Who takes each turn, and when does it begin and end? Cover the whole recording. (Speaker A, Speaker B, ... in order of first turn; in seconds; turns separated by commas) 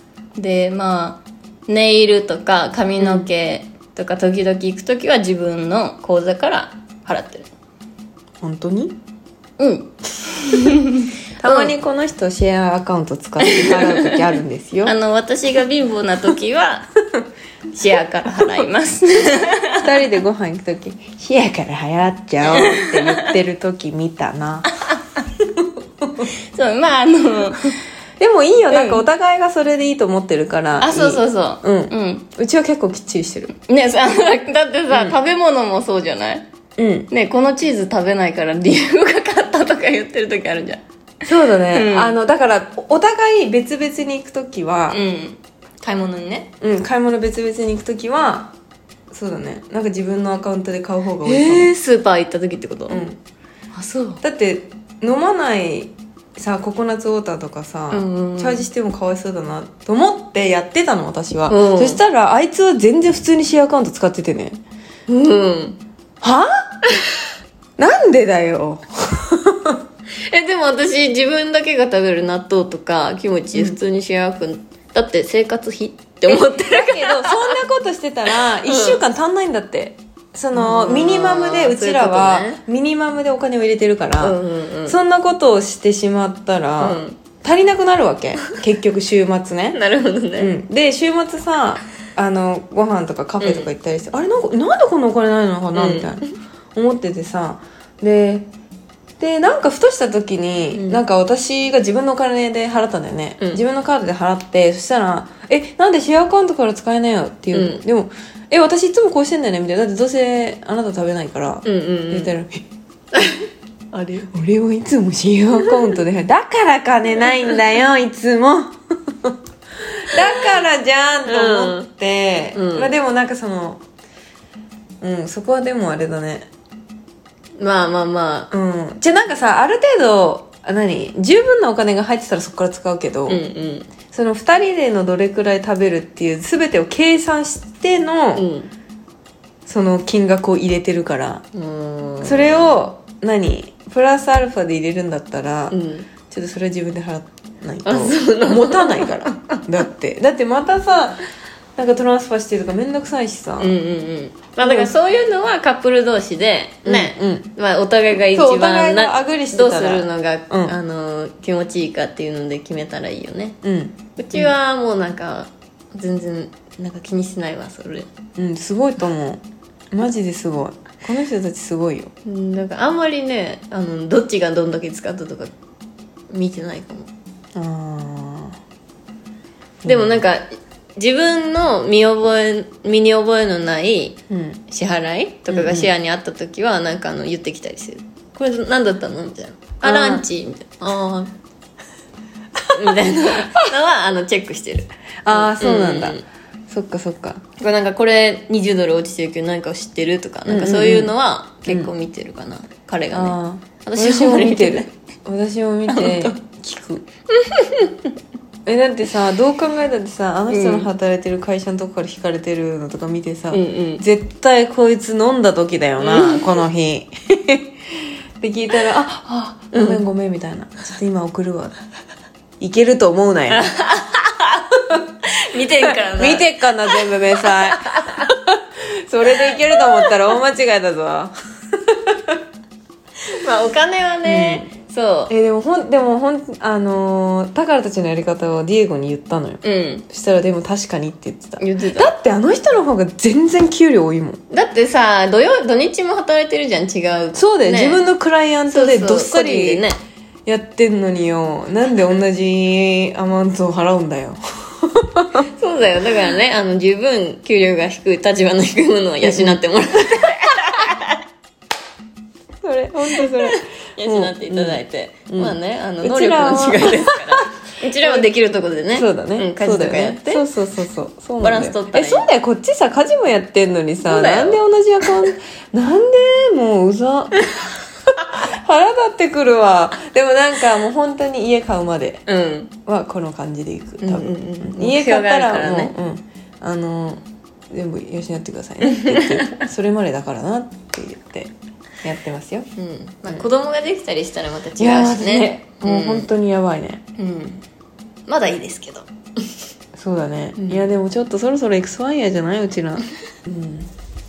Speaker A: 0.3-7.5, Speaker B: 3.0-3.3, Speaker B: 8.4-8.9, Speaker A: 9.6-11.7, Speaker B: 11.4-14.9, Speaker A: 13.4-14.2, Speaker A: 14.8-16.9, Speaker A: 17.7-19.9, Speaker B: 18.4-18.7, Speaker B: 19.7-24.7, Speaker A: 22.5-23.3, Speaker A: 24.9-25.2, Speaker A: 26.5-27.8, Speaker B: 28.2-33.5, Speaker A: 28.7-29.0, Speaker A: 30.8-32.3, Speaker A: 33.6-36.4, Speaker B: 34.9-35.2, Speaker B: 36.8-37.1, Speaker A: 37.1-40.8, Speaker B: 41.2-45.0, Speaker A: 41.7-42.2, Speaker A: 44.9-46.5, Speaker B: 46.6-48.5, Speaker B: 49.1-51.7, Speaker A: 51.2-53.0, Speaker B: 52.9-53.2, Speaker A: 53.7-54.2, Speaker B: 54.2-64.6, Speaker A: 57.9-58.7, Speaker A: 61.5-62.0, Speaker A: 65.1-65.8, Speaker B: 66.2-66.8, Speaker B: 67.8-69.8, Speaker A: 70.2-77.6, Speaker B: 76.2-89.8, Speaker A: 78.3-79.0, Speaker A: 80.5-82.6, Speaker A: 84.2-85.0, Speaker A: 86.8-87.2, Speaker A: 89.7-90.5, Speaker B: 90.4-98.5, Speaker A: 93.4-93.7, Speaker A: 95.7-96.2, Speaker B: 99.2-112.6, Speaker A: 100.7-101.0, Speaker A: 107.5-107.8, Speaker A: 111.6-112.3, Speaker A: 113.1-114.3, Speaker B: 114.3-119.3, Speaker B: 120.0-123.8, Speaker A: 120.2-120.4, Speaker A: 121.2-121.9, Speaker A: 122.5-122.9, Speaker B: 125.0-126.5, Speaker A: 127.6-128.5, Speaker B: 128.5-133.4, Speaker A: 133.3-133.9, Speaker B: 134.1-138.5, Speaker A: 138.3-138.7, Speaker B: 139.7-141.4, Speaker A: 141.5-142.7, Speaker B: 142.2-151.2, Speaker A: 145.7-146.1, Speaker A: 147.8-149.6, Speaker B: 151.8-153.7, Speaker A: 153.6-163.6, Speaker B: 154.6-154.9, Speaker B: 156.8-157.5, Speaker B: 158.3-160.8, Speaker B: 163.6-164.5, Speaker A: 164.2-168.1, Speaker B: 168.3-172.1, Speaker A: 172.2-175.5, Speaker A: 176.3-177.1, Speaker B: 177.5-178.6, Speaker B: 179.8-180.2, Speaker A: 179.8-184.2, Speaker B: 184.3-184.6, Speaker A: 184.7-191.3, Speaker B: 185.5-185.9, Speaker B: 189.8-190.2, Speaker A: 192.7-196.2, Speaker B: 195.2-197.4, Speaker A: 197.6-204.9, Speaker B: 200.4-201.1, Speaker B: 201.7-201.9, Speaker B: 203.1-207.0, Speaker A: 205.9-206.3, Speaker A: 207.3-208.1, Speaker B: 208.7-217.7, Speaker A: 210.5-210.9, Speaker A: 213.5-214.0, Speaker A: 216.0-216.6, Speaker B: 218.4-221.8, Speaker A: 219.7-220.0, Speaker B: 222.6-223.7, Speaker A: 223.5-228.3, Speaker B: 225.8-232.4, Speaker A: 229.4-230.1, Speaker A: 233.3-235.3, Speaker B: 234.2-234.7, Speaker B: 235.3-244.4, Speaker A: 239.6-240.1, Speaker A: 241.6-242.1, Speaker A: 244.5-248.0, Speaker B: 247.3-249.9, Speaker A: 248.7-250.0, Speaker B: 250.4-255.4, Speaker A: 255.5-261.2, Speaker B: 259.2-259.6, Speaker B: 262.6-268.3, Speaker A: 263.1-270.5, Speaker B: 268.9-277.4, Speaker A: 271.4-272.3, Speaker A: 274.0-275.1, Speaker B: 278.3-282.2, Speaker A: 282.3-282.7, Speaker B: 282.9-291.5, Speaker A: 284.0-285.9, Speaker A: 288.9-289.6, Speaker B: 292.0-292.7, Speaker A: 292.8-296.3, Speaker B: 294.8-297.0, Speaker A: 297.2-297.6, Speaker A: 298.3-299.1, Speaker B: 299.9-303.9, Speaker A: 300.6-300.8